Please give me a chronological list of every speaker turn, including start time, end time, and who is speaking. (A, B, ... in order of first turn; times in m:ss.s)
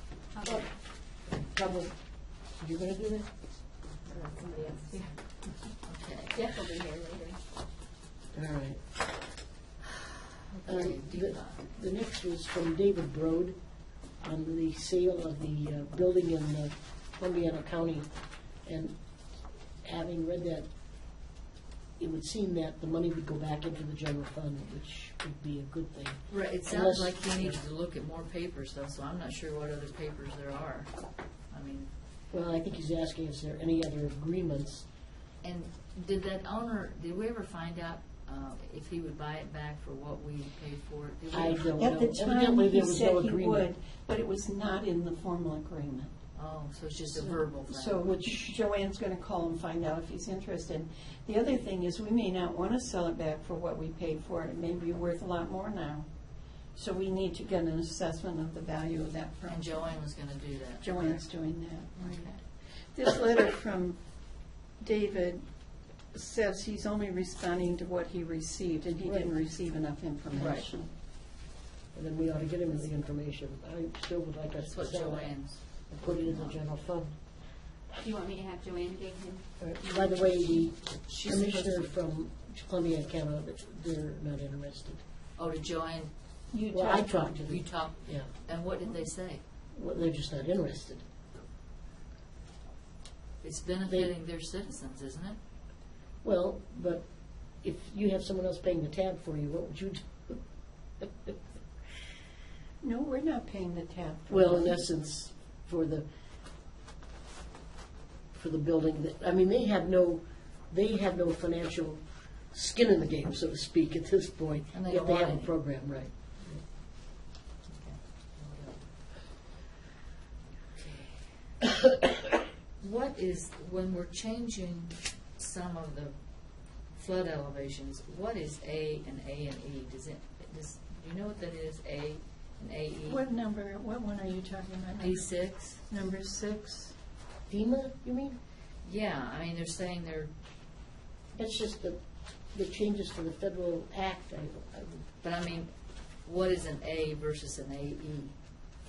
0:00.3-0:00.6 A
0:01.3-0:02.0 B
0:02.5-0:03.3 B
0:04.1-0:05.2 C
0:04.5-0:05.1 A
0:05.8-0:06.4 C
0:06.3-0:07.4 A
0:08.3-0:08.8 B
0:10.6-0:11.7 C
0:10.6-0:13.6 B
0:14.2-0:18.1 B
0:18.6-0:19.0 B
0:19.8-0:20.7 B
0:22.0-0:27.6 B
0:26.3-0:30.9 C
0:31.5-0:31.9 C
0:32.3-0:34.9 B
0:35.4-0:41.8 C
0:41.3-0:43.7 B
0:41.8-0:46.1 D
0:46.3-0:48.1 C
0:47.1-0:56.1 D
0:48.1-0:48.5 B
0:56.7-0:59.7 D
0:59.5-1:01.2 C
1:00.8-1:02.4 D
1:02.0-1:02.4 C
1:02.9-1:04.0 D
1:04.8-1:05.4 D
1:06.1-1:10.9 D
1:09.0-1:09.3 B
1:10.3-1:10.6 C
1:11.9-1:17.1 B
1:14.6-1:16.6 C
1:18.0-1:19.4 A
1:19.6-1:25.0 B
1:21.1-1:21.9 C
1:25.4-1:26.1 C
1:26.5-1:27.3 D
1:26.7-1:28.3 B
1:27.2-1:29.4 C
1:29.7-1:31.0 B
1:33.4-1:35.4 C
1:33.8-1:34.1 B
1:36.2-1:37.0 B
1:37.6-1:40.4 B
1:41.0-1:41.4 B
1:42.8-1:44.8 D
1:44.3-1:46.1 B
1:48.3-1:56.6 B
1:54.7-1:55.5 C
1:57.7-1:58.8 C
2:00.8-2:01.1 C
2:02.8-2:06.1 C
2:06.9-2:13.2 C
2:13.0-2:15.3 D
2:15.0-2:15.8 C
2:15.9-2:17.0 D
2:17.5-2:18.4 B
2:18.8-2:20.3 C
2:21.4-2:22.0 B
2:22.5-2:25.0 B
2:25.2-2:25.7 C
2:26.2-2:28.3 C